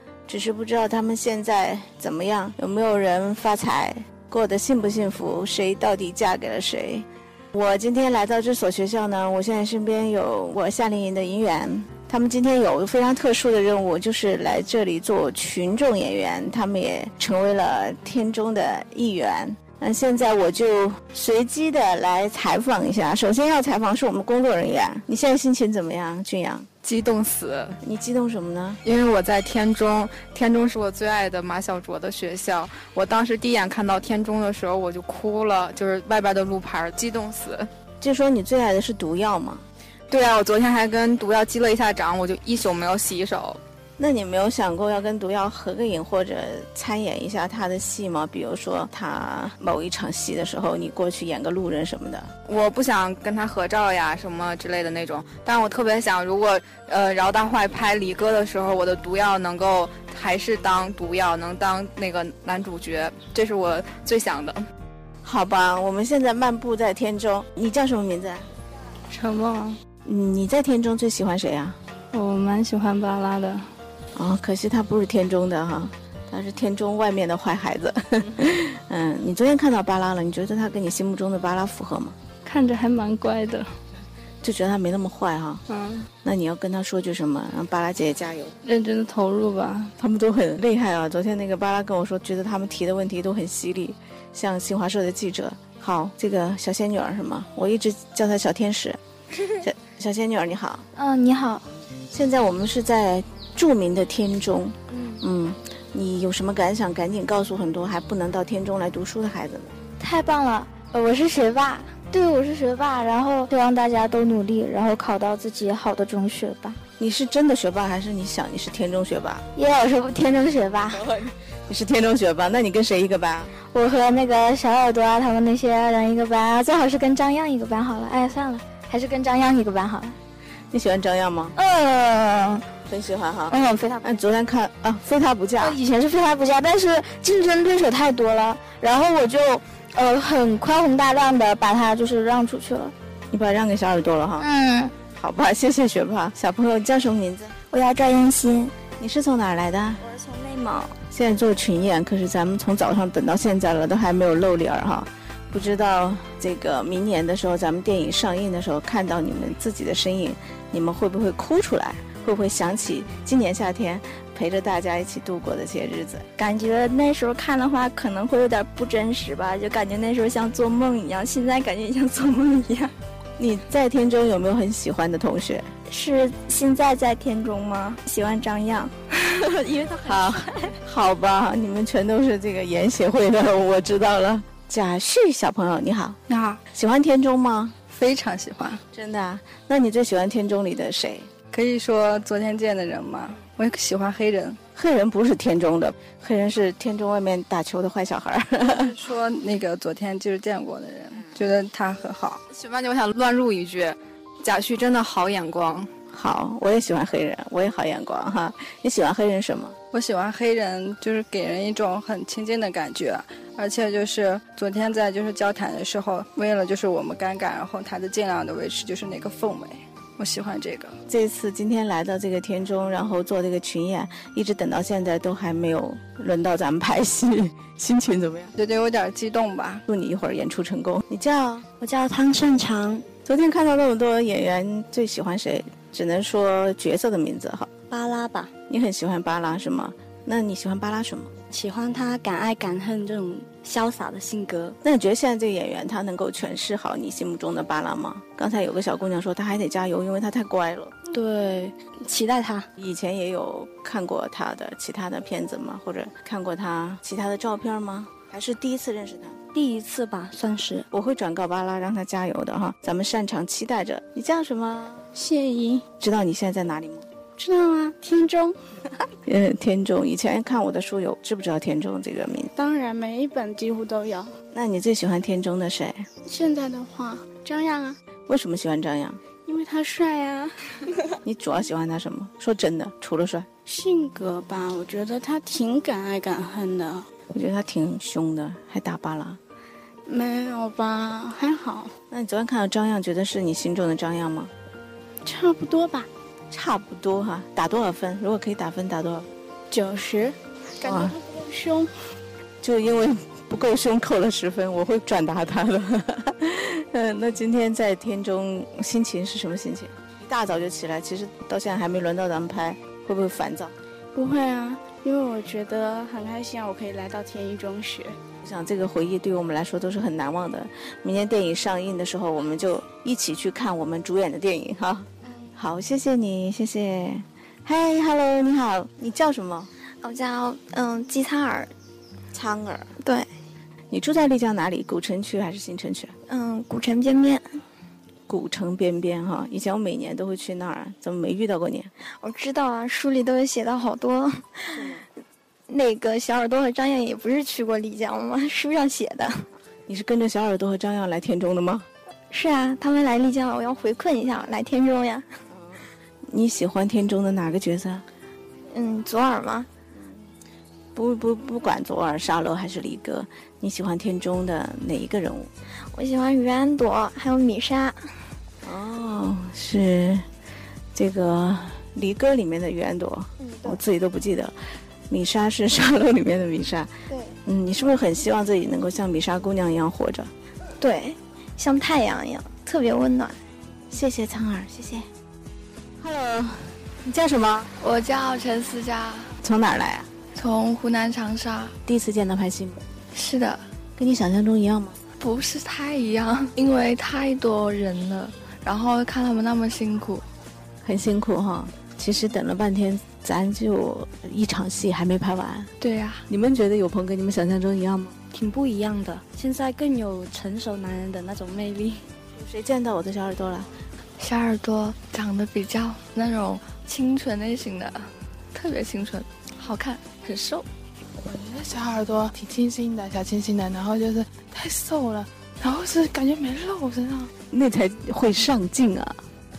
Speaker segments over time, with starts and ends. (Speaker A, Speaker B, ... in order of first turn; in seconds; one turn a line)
Speaker A: 0.3-26.7
Speaker B: 26.8-27.8
Speaker A: 27.8-28.8
Speaker B: 28.9-37.7
Speaker A: 38.0-39.6
Speaker B: 40.1-43.6
Speaker A: 44.0-52.3
Speaker B: 52.5-64.6
Speaker A: 65.2-68.5
Speaker C: 69.1-69.8
Speaker A: 70.0-71.8
Speaker C: 72.1-73.7
Speaker A: 74.1-82.2
Speaker C: 82.4-83.7
Speaker A: 84.4-85.6
Speaker C: 85.7-86.1
Speaker A: 86.2-88.6
Speaker C: 88.6-89.9
Speaker A: 90.0-99.0
Speaker A: 99.6-100.9
Speaker A: 102.1-109.8
Speaker D: 110.0-116.7
Speaker A: 117.0-119.5
Speaker D: 119.6-120.9
Speaker A: 120.9-123.5
Speaker D: 123.7-129.6
Speaker A: 130.7-131.6
Speaker D: 131.9-132.2
Speaker A: 132.8-135.8
Speaker D: 135.8-142.9
Speaker A: 143.3-144.5
Speaker A: 145.0-147.6
Speaker D: 148.1-148.4
Speaker A: 148.9-150.1
Speaker E: 150.2-150.5
Speaker A: 150.8-166.3
Speaker F: 166.4-172.5
Speaker A: 173.4-175.7
Speaker F: 175.9-176.3
Speaker F: 176.9-178.9
Speaker A: 180.0-186.2
Speaker C: 186.3-186.6
Speaker A: 186.7-187.8
Speaker C: 187.9-188.8
Speaker A: 188.9-191.3
Speaker C: 191.5-194.6
Speaker A: 194.8-198.9
Speaker C: 198.6-202.4
Speaker B: 202.5-205.9
Speaker A: 206.1-209.8
Speaker C: 209.9-221.0
Speaker A: 221.1-228.6
Speaker C: 228.6-229.8
Speaker A: 229.9-231.7
Speaker G: 231.8-233.1
Speaker A: 233.2-237.7
Speaker G: 237.9-238.5
Speaker A: 238.7-241.3
Speaker G: 241.5-244.8
Speaker A: 244.8-250.9
Speaker G: 251.1-252.7
Speaker A: 252.8-259.4
Speaker G: 259.5-260.9
Speaker A: 260.9-265.1
Speaker E: 265.1-265.8
Speaker A: 266.0-267.1
Speaker E: 267.4-268.6
Speaker A: 269.2-272.5
Speaker E: 272.6-274.4
Speaker A: 274.5-276.1
Speaker E: 276.2-278.0
Speaker A: 278.3-279.2
Speaker E: 279.4-281.2
Speaker A: 281.2-283.5
Speaker E: 283.7-287.1
Speaker A: 287.3-289.4
Speaker E: 290.1-291.9
Speaker A: 292.1-294.5
Speaker E: 295.2-296.1
Speaker A: 296.5-299.3
Speaker E: 299.7-301.9
Speaker A: 300.8-301.2
Speaker A: 302.6-313.7
Speaker E: 314.1-318.2
Speaker A: 318.4-329.7
Speaker F: 330.0-331.7
Speaker D: 330.1-331.7
Speaker A: 332.3-333.0
Speaker A: 333.9-336.1
Speaker F: 336.3-337.4
Speaker D: 336.4-337.4
Speaker A: 338.3-341.9
Speaker F: 342.2-344.6
Speaker D: 342.4-344.4
Speaker A: 344.7-345.1
Speaker D: 345.7-349.4
Speaker F: 345.9-347.0
Speaker F: 347.7-348.2
Speaker F: 348.8-349.2
Speaker A: 349.9-351.9
Speaker D: 352.3-355.2
Speaker F: 352.5-352.8
Speaker F: 353.5-355.2
Speaker A: 355.5-358.1
Speaker F: 358.7-359.7
Speaker D: 358.9-359.3
Speaker A: 359.9-360.4
Speaker A: 360.9-365.5
Speaker D: 365.9-367.9
Speaker F: 366.0-367.9
Speaker A: 368.6-370.3
Speaker A: 370.9-374.6
Speaker A: 375.1-380.3
Speaker D: 380.8-383.4
Speaker F: 380.8-381.2
Speaker F: 382.0-383.2
Speaker A: 383.9-385.1
Speaker A: 386.0-387.7
Speaker H: 387.8-389.3
Speaker A: 389.4-390.1
Speaker H: 390.4-391.8
Speaker A: 391.9-392.9
Speaker H: 393.1-393.6
Speaker A: 394.0-395.0
Speaker H: 395.2-400.3
Speaker A: 400.8-405.7
Speaker H: 405.8-406.2
Speaker A: 406.3-408.2
Speaker G: 408.3-412.1
Speaker A: 412.3-413.7
Speaker H: 414.2-420.7
Speaker I: 421.5-425.2
Speaker I: 425.7-426.9
Speaker A: 427.4-429.2